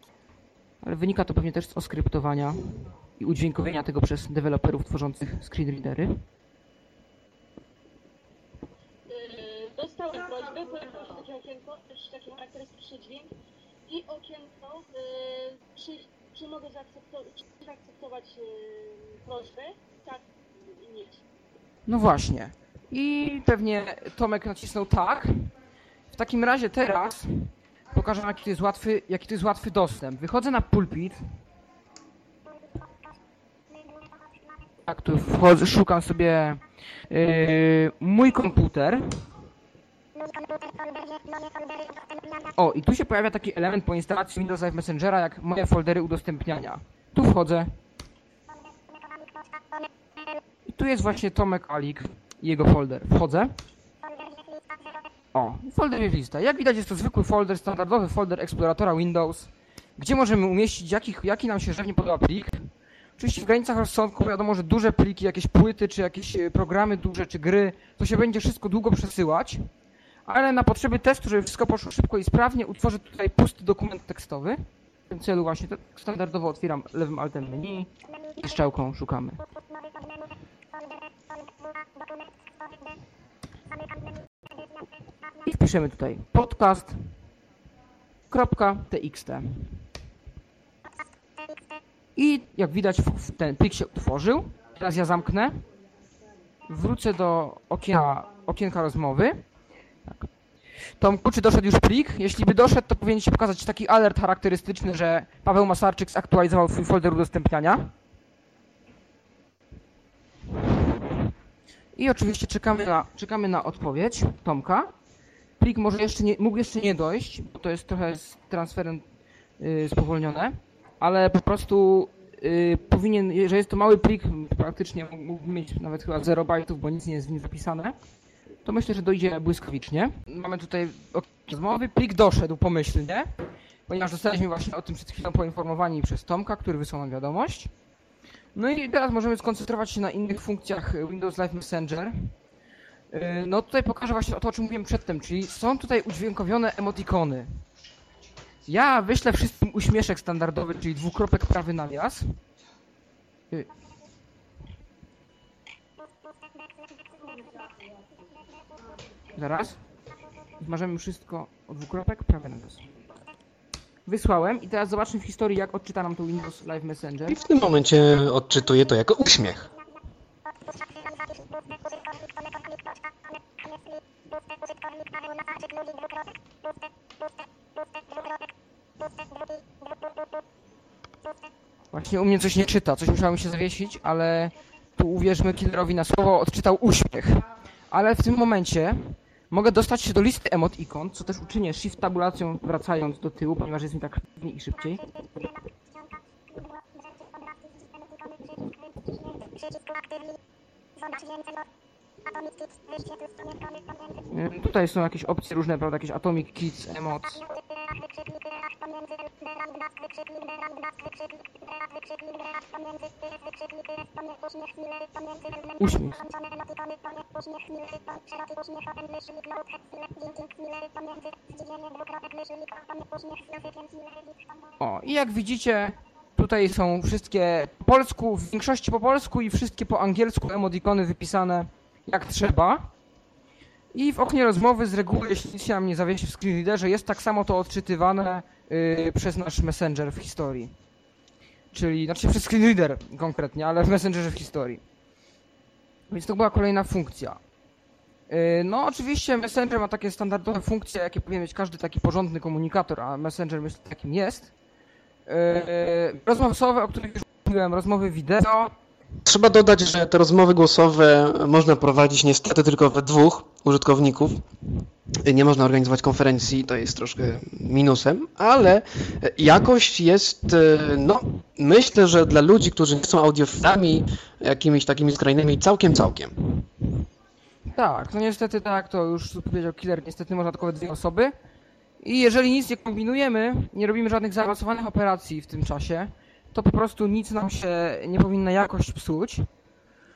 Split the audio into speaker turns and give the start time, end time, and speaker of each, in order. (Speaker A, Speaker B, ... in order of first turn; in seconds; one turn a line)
Speaker A: 0.8-6.2
Speaker B: 9.1-13.3
Speaker B: 13.9-21.2
Speaker A: 21.9-25.5
Speaker A: 26.1-31.2
Speaker A: 34.9-39.2
Speaker B: 40.2-42.2
Speaker A: 42.5-47.7
Speaker A: 50.7-53.5
Speaker A: 55.3-69.7
Speaker A: 70.3-79.4
Speaker A: 85.5-87.1
Speaker A: 88.3-89.8
Speaker A: 92.2-95.6
Speaker A: 96.7-99.5
Speaker A: 101.0-107.9
Speaker A: 110.8-111.2
Speaker A: 112.0-114.9
Speaker A: 115.6-119.0
Speaker A: 119.6-128.0
Speaker A: 128.7-133.3
Speaker A: 133.9-137.7
Speaker A: 138.6-142.3
Speaker A: 143.1-147.6
Speaker A: 148.7-152.4
Speaker A: 159.3-159.8
Speaker A: 160.6-162.9
Speaker A: 164.1-167.4
Speaker C: 167.3-169.7
Speaker B: 175.0-176.2
Speaker A: 181.9-195.1
Speaker B: 198.0-200.0
Speaker B: 201.0-201.6
Speaker B: 202.3-204.1
Speaker A: 204.3-207.4
Speaker B: 209.2-211.1
Speaker B: 211.9-215.7
Speaker A: 215.8-216.2
Speaker B: 216.4-224.2
Speaker A: 224.8-232.9
Speaker A: 233.9-240.7
Speaker A: 241.7-244.8
Speaker A: 246.1-247.4
Speaker A: 248.3-254.5
Speaker A: 255.3-258.7
Speaker C: 259.2-264.4
Speaker C: 265.2-276.3
Speaker A: 277.7-281.4
Speaker A: 282.0-289.5